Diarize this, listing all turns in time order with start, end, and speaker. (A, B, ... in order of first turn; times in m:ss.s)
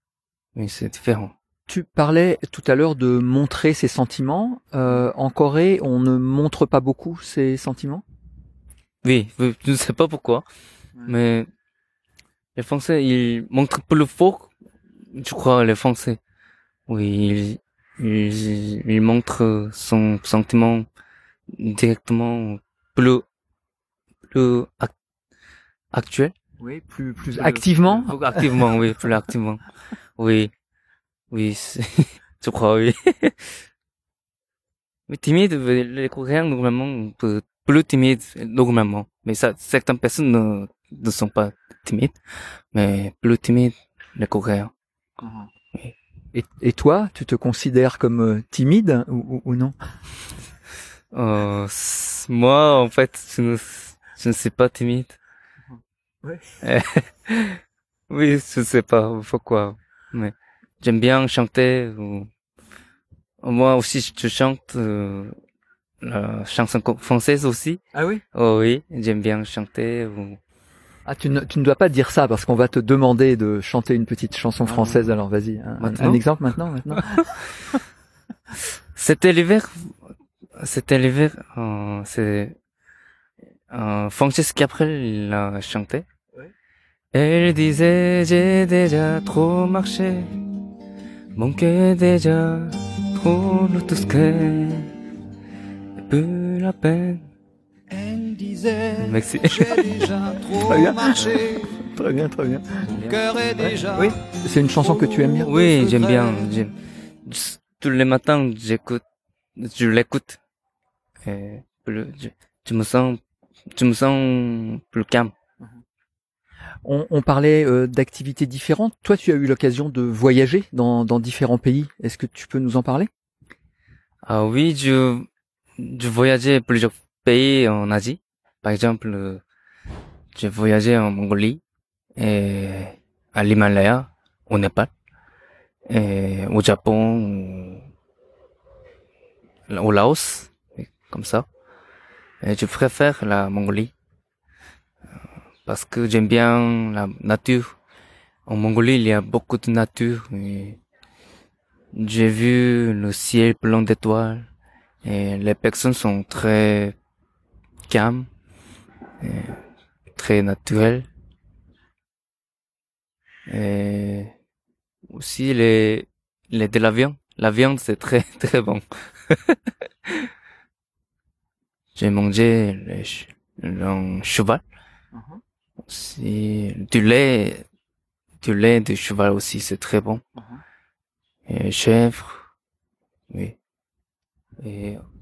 0:00.5-0:01.3 A
0:01.7-0:08.0 B
0:09.0-0:10.4 A
0:11.0-0:11.5 A
0:12.5-0:14.5 A
0:15.1-0:16.2 A
0:16.9-0:20.9 A
0:21.5-0:23.2 A
0:24.3-0:24.9 A
0:25.9-0:26.3 A
0:26.6-0:28.5 B
0:27.3-0:29.6 A
0:30.2-0:30.5 A
0:31.3-0:33.6 A
0:35.1-0:42.2 A
0:42.7-0:44.7 A
0:45.2-0:45.5 B
0:46.3-0:49.7 B
0:51.1-0:55.2 A
0:56.6-1:02.3 A
1:03.4-1:05.3 A
1:06.0-1:07.8 A
1:07.9-1:08.2 B
1:08.3-1:10.4 A
1:11.0-1:17.3 B
1:14.6-1:15.0 A
1:15.8-1:16.2 A
1:18.9-1:19.9 A
1:20.6-1:22.6 A
1:23.7-1:26.0 A
1:27.1-1:30.3 A
1:31.4-1:34.9 A
1:36.0-1:37.3 A
1:37.9-1:41.8 C
1:39.0-1:39.8 A
1:40.6-1:42.9 B
1:41.2-1:41.4 A
1:42.8-1:43.2 A
1:43.0-1:44.1 C
1:43.6-1:45.6 B
1:44.7-1:46.5 C
1:45.4-1:49.0 A
1:49.6-1:50.4 A
1:51.2-1:53.2 A
1:53.7-1:55.3 A
1:56.8-2:03.1 B
2:04.2-2:05.3 A
2:05.8-2:09.4 A
2:10.3-2:11.6 A
2:12.2-2:14.9 A
2:15.9-2:17.8 A
2:19.7-2:21.5 A
2:22.4-2:23.9 A
2:25.6-2:27.8 A
2:28.4-2:30.8 A
2:31.9-2:34.5 A
2:35.0-2:36.9 A
2:37.9-2:38.3 A
2:39.2-2:39.6 A
2:40.1-2:41.1 A
2:43.5-2:44.3 A
2:45.1-2:50.3 A
2:51.9-2:54.6 A
2:55.1-2:55.4 B
2:55.8-2:57.6 A
2:58.4-3:00.2 A
3:01.5-3:02.4 A
3:03.3-3:03.6 A
3:04.6-3:05.0 A